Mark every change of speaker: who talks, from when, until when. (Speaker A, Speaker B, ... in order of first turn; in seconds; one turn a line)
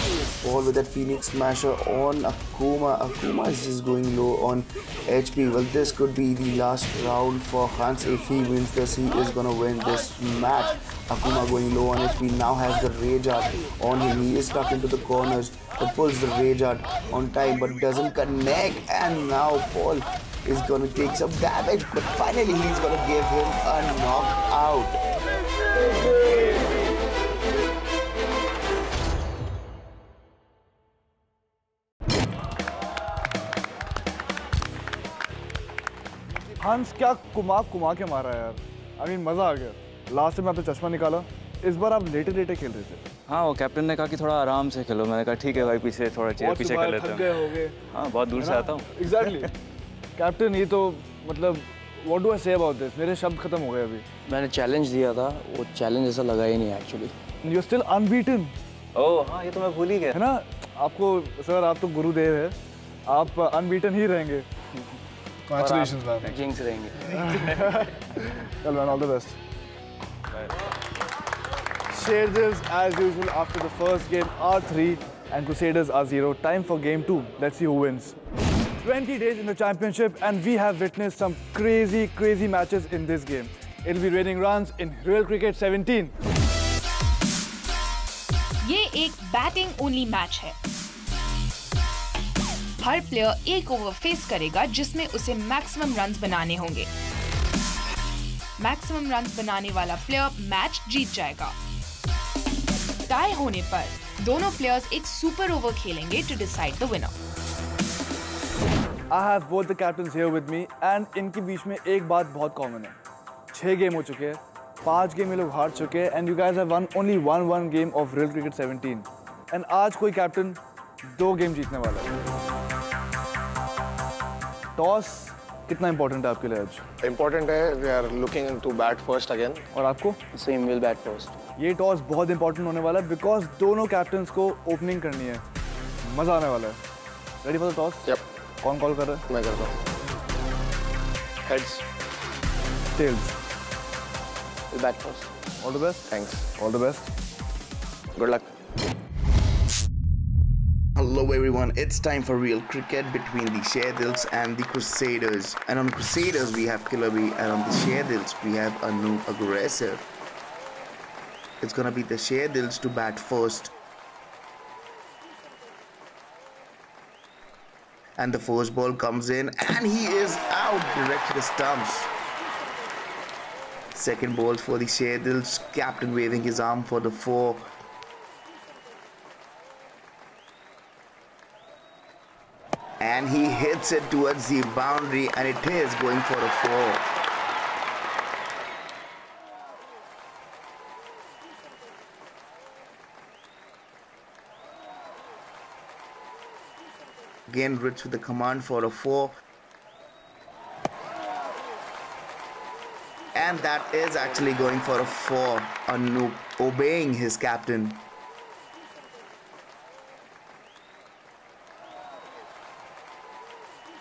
Speaker A: 0.4-25.0
Speaker B: 36.6-43.0
Speaker C: 43.3-47.3
Speaker B: 46.4-47.8
Speaker C: 47.9-49.3
Speaker B: 48.4-49.5
Speaker B: 50.2-54.0
Speaker D: 54.3-57.1
Speaker B: 57.4-58.5
Speaker C: 59.0-60.1
Speaker B: 60.1-62.5
Speaker B: 63.1-64.5
Speaker B: 65.5-66.3
Speaker D: 65.5-67.6
Speaker B: 67.1-69.4
Speaker B: 71.9-78.2
Speaker B: 78.8-86.1
Speaker E: 88.6-90.6
Speaker E: 92.8-96.9
Speaker E: 98.6-101.5
Speaker E: 103.1-107.1
Speaker B: 109.1-113.0
Speaker B: 113.5-122.1
Speaker B: 124.8-126.8
Speaker F: 127.0-129.6
Speaker B: 129.7-130.2
Speaker D: 130.3-131.4
Speaker B: 131.6-135.4
Speaker B: 136.1-136.8
Speaker B: 137.4-138.1
Speaker B: 138.6-139.2
Speaker F: 139.3-139.8
Speaker F: 141.5-141.8
Speaker B: 143.0-143.3
Speaker D: 144.7-145.3
Speaker B: 145.6-147.1
Speaker D: 148.2-148.4
Speaker A: 151.0-160.1
Speaker A: 161.6-163.8
Speaker A: 168.2-172.1
Speaker A: 173.9-177.7
Speaker A: 183.0-187.1
Speaker A: 197.5-199.4
Speaker A: 203.3-208.1